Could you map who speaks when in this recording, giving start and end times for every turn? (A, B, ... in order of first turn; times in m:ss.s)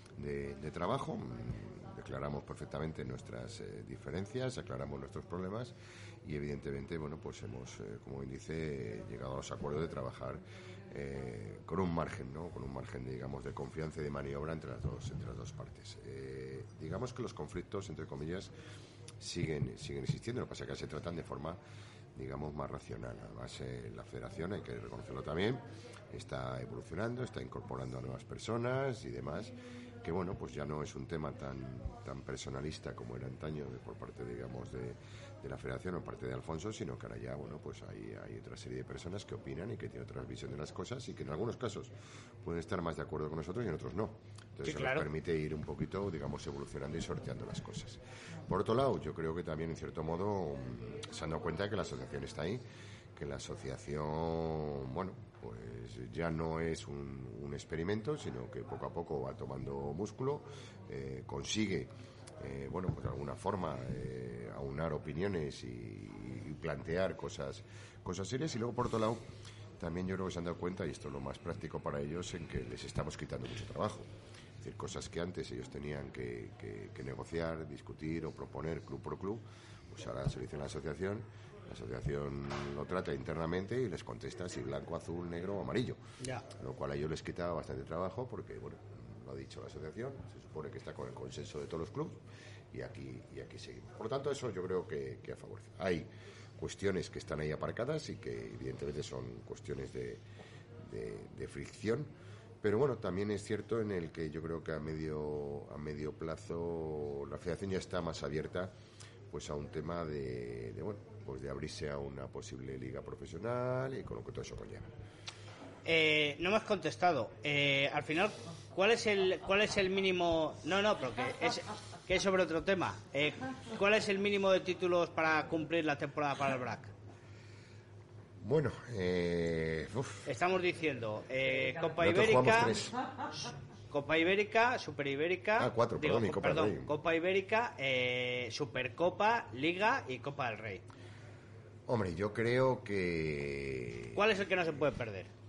0:00.2-0:18.5 A
0:19.2-0:21.6 A
0:22.1-0:41.9 A
0:42.4-0:52.6 A
0:44.6-0:45.0 B
0:53.1-1:09.2 A
1:09.8-1:14.1 A
1:14.6-1:26.0 A
1:26.5-1:40.2 A
1:40.8-1:48.7 A
1:49.3-1:54.9 A
1:55.8-2:06.9 B
2:08.4-2:10.3 A
2:10.3-2:12.8 B
2:12.0-2:13.0 A
2:13.9-2:20.8 B
2:15.6-2:16.9 A
2:21.9-2:24.2 A
2:24.1-2:25.3 B